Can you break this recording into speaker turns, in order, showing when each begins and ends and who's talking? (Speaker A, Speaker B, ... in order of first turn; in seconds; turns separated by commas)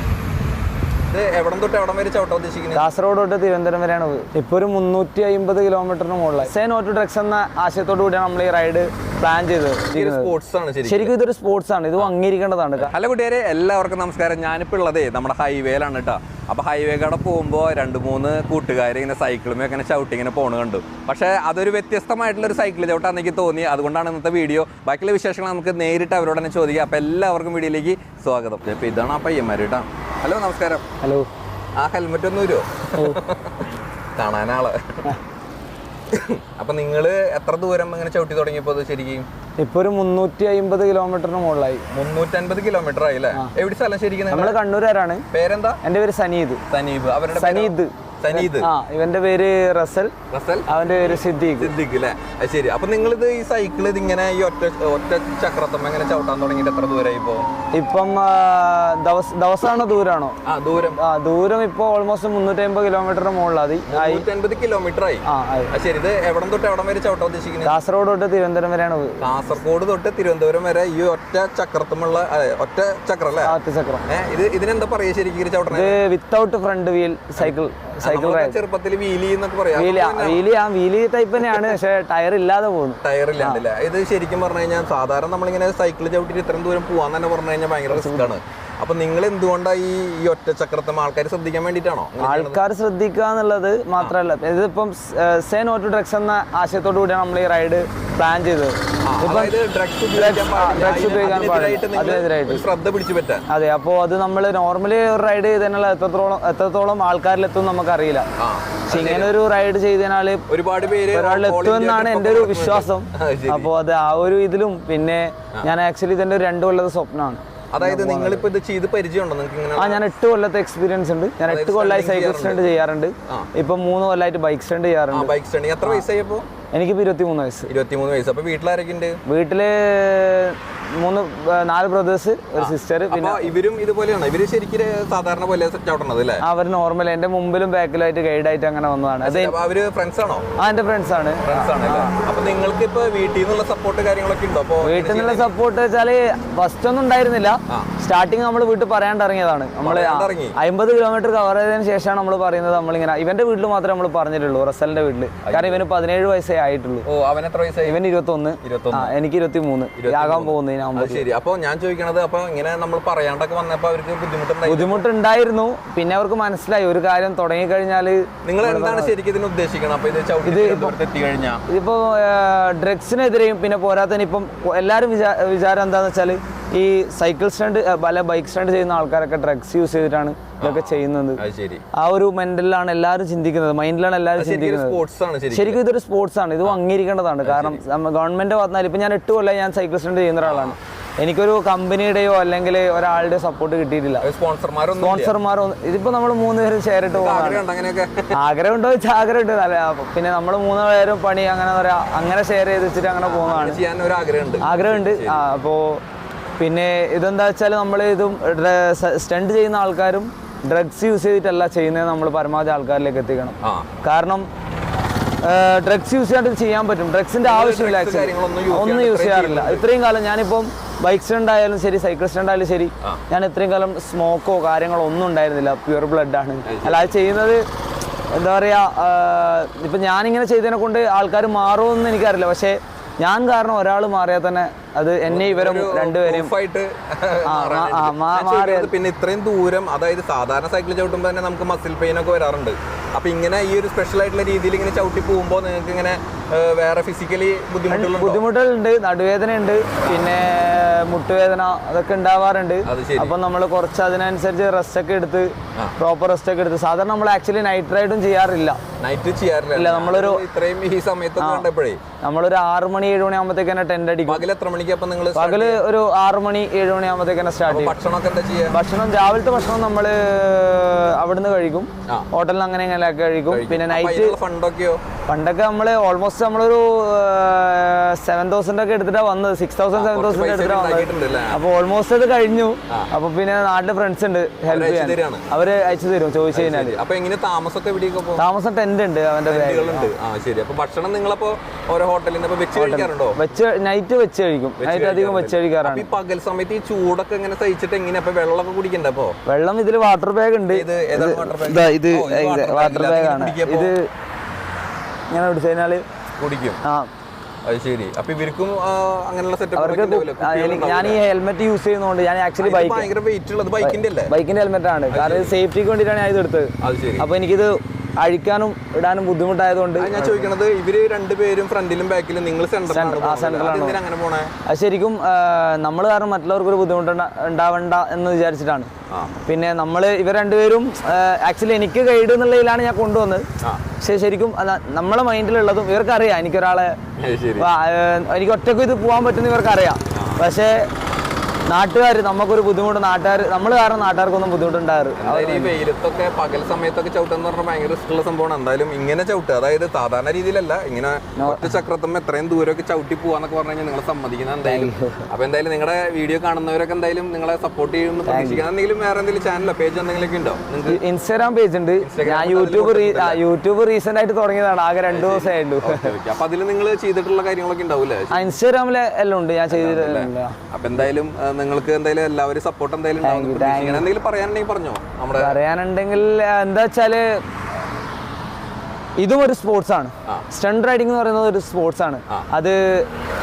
Speaker A: 1.1-2.9, Speaker B: 2.8-10.3, Speaker A: 9.9-11.1, Speaker B: 10.8-12.9, Speaker A: 12.8-30.8, Speaker B: 31.0-31.3, Speaker A: 31.8-35.2, Speaker A: 36.1-39.3, Speaker B: 39.6-41.9, Speaker A: 41.9-44.6, Speaker B: 44.3-45.2, Speaker A: 45.3-45.8, Speaker B: 45.8-46.6, Speaker A: 46.7-48.7, Speaker B: 47.3-50.1, Speaker A: 50.3-57.5, Speaker B: 50.7-51.7, Speaker B: 57.7-60.4, Speaker A: 60.5-61.0, Speaker B: 61.0-64.2, Speaker A: 63.9-67.8, Speaker B: 65.3-65.7, Speaker B: 67.7-69.4, Speaker A: 69.2-73.5, Speaker B: 73.5-74.0, Speaker A: 74.1-76.0, Speaker B: 75.7-78.6, Speaker A: 77.4-80.5, Speaker B: 79.8-83.6, Speaker A: 81.4-81.8, Speaker A: 83.0-92.6, Speaker B: 87.9-88.3, Speaker B: 92.2-99.6, Speaker A: 99.0-103.5, Speaker B: 100.1-102.6, Speaker B: 103.5-108.3, Speaker A: 108.4-109.3, Speaker B: 108.9-110.5, Speaker A: 110.5-113.7, Speaker B: 111.0-118.5, Speaker A: 117.7-120.0, Speaker B: 119.8-125.3, Speaker A: 121.5-122.6, Speaker A: 125.1-126.5, Speaker B: 126.7-127.7, Speaker A: 127.7-129.2, Speaker B: 129.3-133.5, Speaker A: 132.6-136.4, Speaker B: 136.4-139.6, Speaker A: 139.2-140.4, Speaker B: 140.6-142.1, Speaker A: 141.4-145.5, Speaker B: 144.8-157.1, Speaker A: 149.8-150.6, Speaker A: 155.4-155.8, Speaker A: 157.1-158.0, Speaker B: 157.8-161.2, Speaker A: 158.6-159.2, Speaker A: 160.0-165.1, Speaker B: 164.7-169.1, Speaker A: 168.4-171.6, Speaker B: 170.4-171.0, Speaker B: 171.7-181.4, Speaker A: 180.6-181.8, Speaker B: 181.9-185.0, Speaker A: 184.4-185.8, Speaker B: 185.5-194.2, Speaker A: 187.4-187.8, Speaker A: 190.4-190.8, Speaker A: 194.2-195.4, Speaker B: 195.0-197.7, Speaker A: 197.1-198.4, Speaker B: 198.3-203.8, Speaker A: 203.2-205.4, Speaker B: 204.6-206.0, Speaker B: 206.6-214.5, Speaker A: 213.6-213.9, Speaker B: 215.4-227.6, Speaker A: 217.4-219.9, Speaker A: 226.7-227.1, Speaker B: 228.3-236.5, Speaker A: 235.3-248.4, Speaker B: 237.5-238.9, Speaker B: 247.9-258.8, Speaker A: 250.0-250.3, Speaker A: 252.8-253.4, Speaker A: 259.0-262.0, Speaker B: 259.8-260.4, Speaker B: 261.4-261.7, Speaker B: 262.2-264.4, Speaker A: 264.3-265.8, Speaker B: 265.4-268.0, Speaker A: 267.7-268.8, Speaker B: 268.7-274.4, Speaker A: 273.5-275.0, Speaker B: 275.3-287.0, Speaker A: 279.9-281.6, Speaker A: 284.7-285.5, Speaker A: 286.5-288.4, Speaker B: 288.4-290.1, Speaker A: 289.5-293.4, Speaker B: 292.7-296.1, Speaker A: 294.8-299.4, Speaker B: 299.5-304.1, Speaker A: 300.7-303.9, Speaker B: 305.3-306.1, Speaker A: 306.4-306.8, Speaker A: 307.6-311.2, Speaker B: 309.8-313.1, Speaker A: 312.6-314.3, Speaker B: 313.8-320.5, Speaker A: 315.1-315.6, Speaker A: 316.8-317.3, Speaker A: 320.0-324.5, Speaker B: 322.9-324.0, Speaker B: 324.7-328.9, Speaker B: 329.5-333.5, Speaker B: 334.0-337.0, Speaker A: 337.2-337.7, Speaker B: 337.6-340.9, Speaker A: 340.1-340.4, Speaker B: 341.7-345.8, Speaker A: 345.2-361.0, Speaker B: 351.4-351.7, Speaker B: 354.6-355.3, Speaker B: 358.3-358.6, Speaker B: 360.9-366.1, Speaker A: 362.0-363.4, Speaker A: 365.1-368.6, Speaker B: 368.3-370.6, Speaker A: 369.7-375.6, Speaker B: 373.2-374.1, Speaker B: 375.4-377.4, Speaker B: 379.2-383.1